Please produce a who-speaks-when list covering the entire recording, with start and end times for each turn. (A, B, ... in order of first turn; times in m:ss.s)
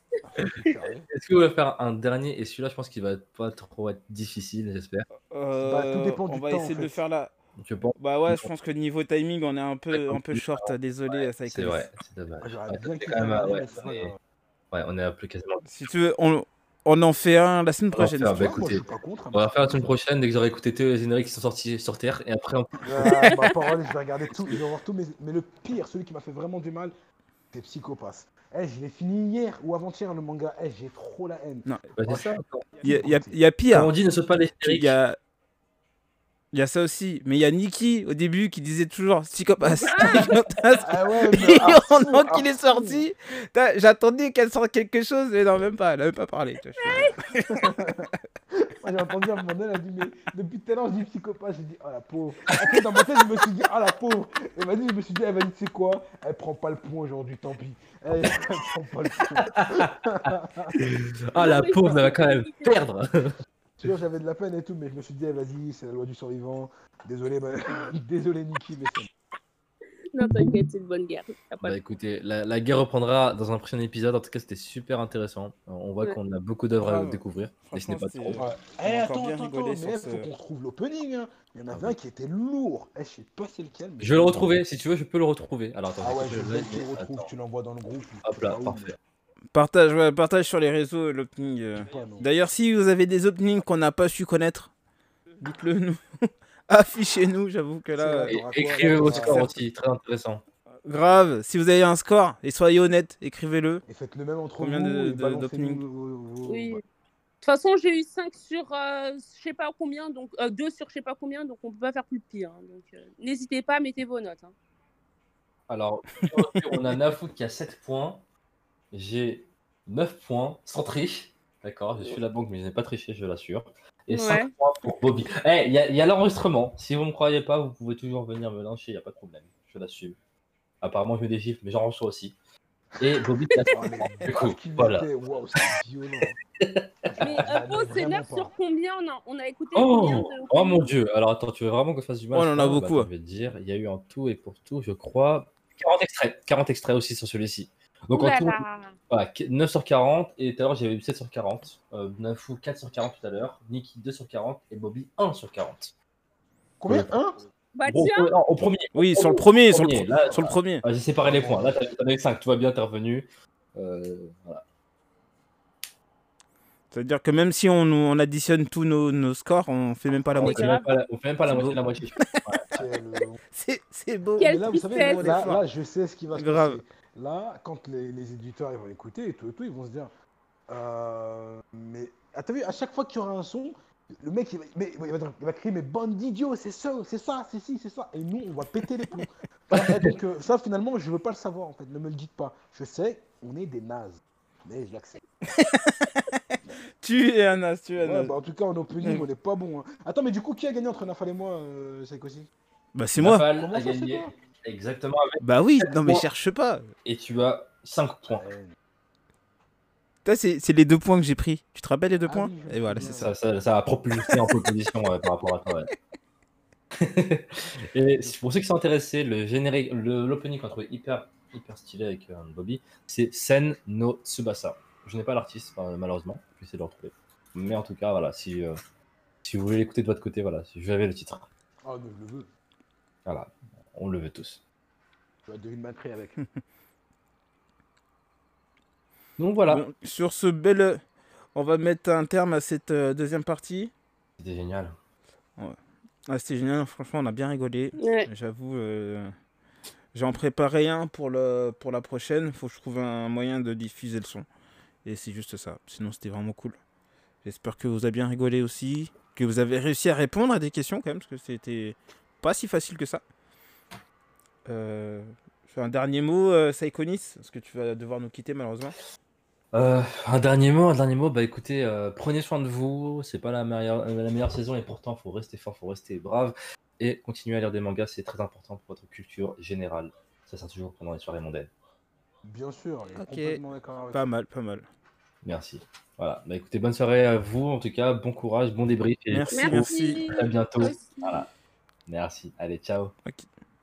0:00.3-0:01.1 A
0:00.4-0:05.1 B
0:05.3-0:07.3 C
0:05.6-0:07.0 A
0:07.6-0:08.5 B
0:08.0-0:11.9 C
0:09.9-0:14.1 B
0:12.4-0:14.2 A
0:14.7-0:15.7 B
0:15.6-0:18.6 C
0:17.9-0:23.2 B
0:18.4-0:20.0 A
0:22.8-0:26.9 A
0:23.0-0:23.5 C
0:27.5-0:33.4 A
0:32.0-0:32.7 B
0:32.8-0:33.9 C
0:33.7-0:35.0 B
0:34.6-0:35.2 C
0:36.5-0:47.9 C
0:39.8-0:40.3 D
0:40.8-0:43.1 A
0:46.8-0:47.1 D
0:47.4-1:00.8 A
0:59.4-1:00.1 B
1:00.7-1:03.4 B
1:01.4-1:02.7 D
1:03.8-1:09.1 A
1:10.1-1:11.8 D
1:11.6-1:18.4 B
1:16.8-1:20.3 C
1:18.4-1:24.6 A
1:24.0-1:27.3 B
1:26.0-1:29.0 A
1:28.2-1:29.0 B
1:29.5-1:34.7 C
1:31.8-1:32.3 A
1:35.4-1:38.4 C
1:38.0-1:39.5 A
1:38.3-1:40.4 B
1:38.9-1:39.6 C
1:40.8-1:43.8 C
1:43.9-1:46.8 A
1:44.6-1:45.8 C
1:46.4-1:46.8 D
1:47.4-1:54.5 D
1:55.7-1:58.2 B
1:58.9-2:10.2 B
2:04.1-2:04.5 D
2:10.8-2:12.4 B
2:13.0-2:15.7 B
2:13.7-2:16.4 A
2:16.6-2:17.5 B
2:17.1-2:18.5 A
2:17.2-2:20.9 D
2:19.7-2:35.9 B
2:22.3-2:23.1 C
2:28.1-2:29.0 D
2:36.8-2:37.4 A
2:36.9-2:37.1 B
2:37.8-2:38.3 D
2:37.9-2:44.6 B
2:39.0-2:40.8 C
2:41.2-2:41.8 A
2:46.9-2:50.8 C
2:50.4-2:50.9 D
2:50.4-2:52.7 B
2:51.5-2:51.8 D
2:52.2-2:52.6 C
2:52.7-2:53.4 A
2:53.5-2:55.6 C
2:54.4-2:55.3 D
2:54.4-3:00.1 A
2:56.3-2:56.8 C
3:00.7-3:15.2 A
3:09.7-3:10.1 B
3:15.5-3:16.4 C
3:17.0-3:18.3 C
3:18.0-3:22.5 A
3:23.0-3:23.4 C
3:23.2-3:26.2 B
3:23.5-3:24.3 A
3:25.4-3:26.9 C
3:27.0-3:28.4 B
3:28.3-3:28.8 A
3:30.2-3:33.1 C
3:32.2-3:33.3 A
3:33.0-3:35.9 B
3:37.0-3:48.8 B
3:49.4-3:51.5 B
3:51.8-3:52.5 A
3:53.3-3:54.6 B
3:55.5-3:56.4 A
3:59.4-3:59.8 B
3:59.7-4:01.0 C
4:01.6-4:03.9 C
4:04.4-4:05.0 B
4:06.3-4:09.3 C
4:08.0-4:08.3 D
4:10.1-4:14.4 C
4:15.0-4:16.8 C
4:17.4-4:23.2 C
4:24.7-4:29.0 C
4:29.7-4:41.7 B
4:42.4-4:44.3 A
4:43.2-4:43.6 C
4:44.1-4:44.9 C
4:45.4-4:51.5 B
4:49.3-4:50.3 C
4:49.5-4:51.4 D
4:52.1-4:53.1 B